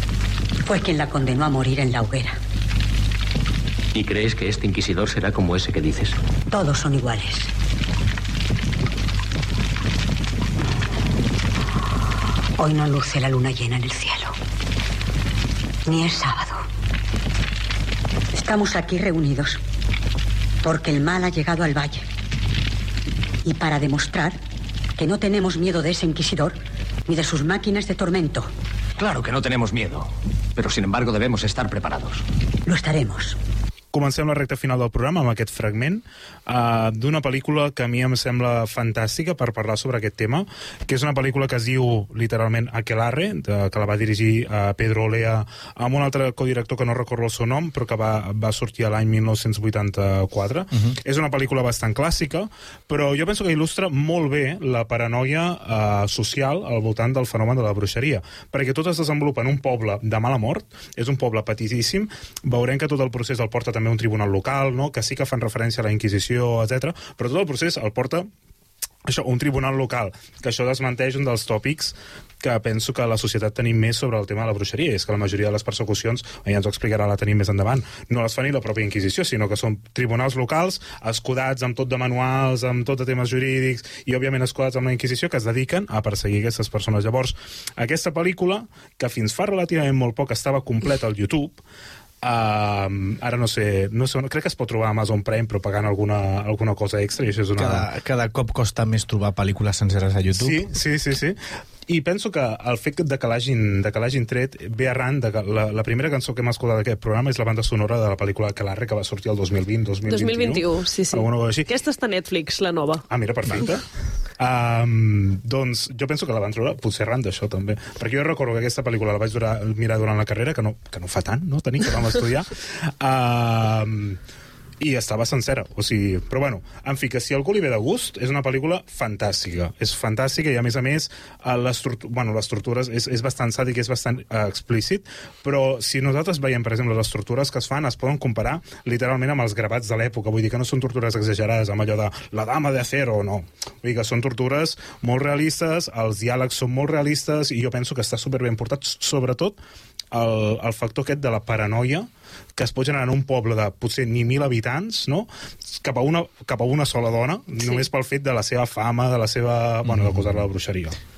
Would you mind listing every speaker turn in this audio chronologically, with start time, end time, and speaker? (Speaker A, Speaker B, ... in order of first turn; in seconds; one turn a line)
Speaker A: 0.6-2.4
Speaker B: 3.9-6.2
Speaker A: 6.5-7.5
Speaker A: 12.6-14.3
Speaker A: 15.9-16.6
Speaker A: 18.3-19.6
Speaker A: 20.6-22.0
Speaker A: 23.4-24.4
Speaker A: 25.0-28.5
Speaker B: 29.0-32.2
Speaker A: 32.7-33.4
Speaker C: 33.9-68.3
Speaker C: 69.0-91.6
Speaker C: 92.2-97.9
Speaker D: 97.5-100.7
Speaker C: 100.3-111.7
Speaker E: 110.1-113.0
Speaker C: 113.1-113.8
Speaker C: 114.4-124.2
Speaker C: 124.8-149.6
Speaker C: 150.1-161.0
Speaker D: 159.8-160.2